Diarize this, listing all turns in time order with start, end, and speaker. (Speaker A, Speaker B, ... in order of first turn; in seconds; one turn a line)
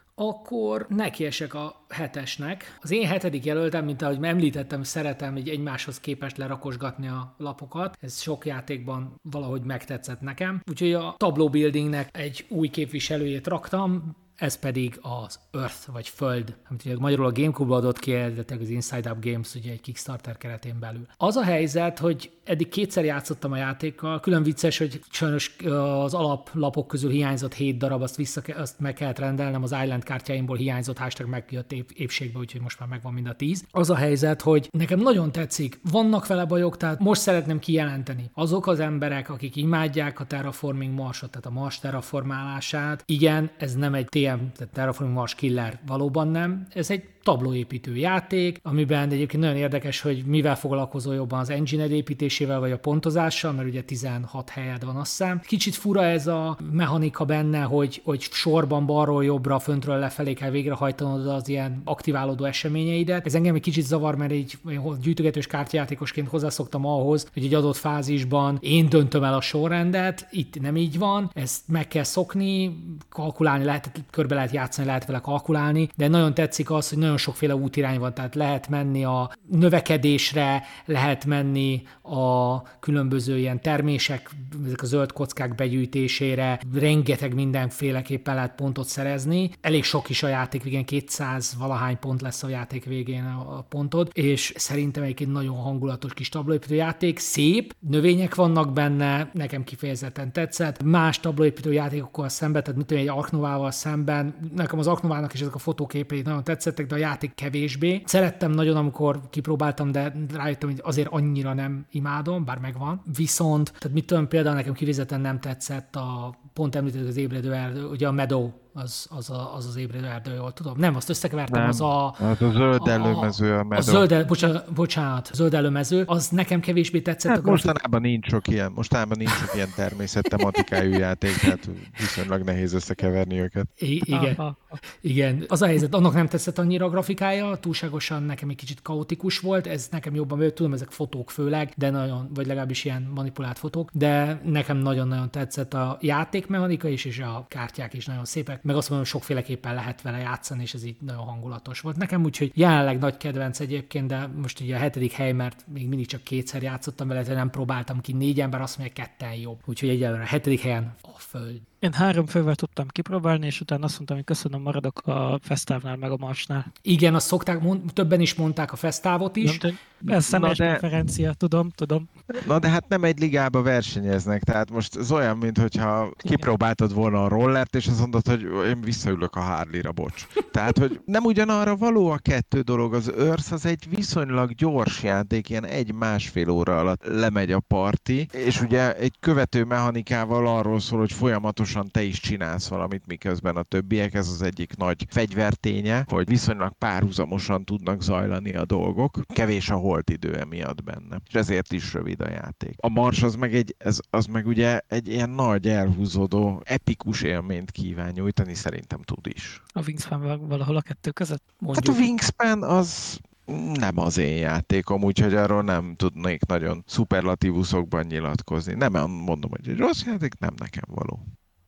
Speaker A: 0.2-122.2
Speaker B: 121.5-124.1
Speaker A: 122.8-127.7
Speaker B: 127.3-133.7
Speaker A: 130.4-130.7
Speaker A: 133.8-134.4
Speaker C: 134.1-134.8
Speaker A: 134.9-161.7
Speaker C: 161.8-166.7
Speaker A: 166.8-169.7
Speaker C: 169.4-172.1
Speaker B: 170.0-170.8
Speaker B: 172.3-209.6
Speaker C: 209.8-211.4
Speaker A: 211.6-212.1
Speaker B: 211.7-221.2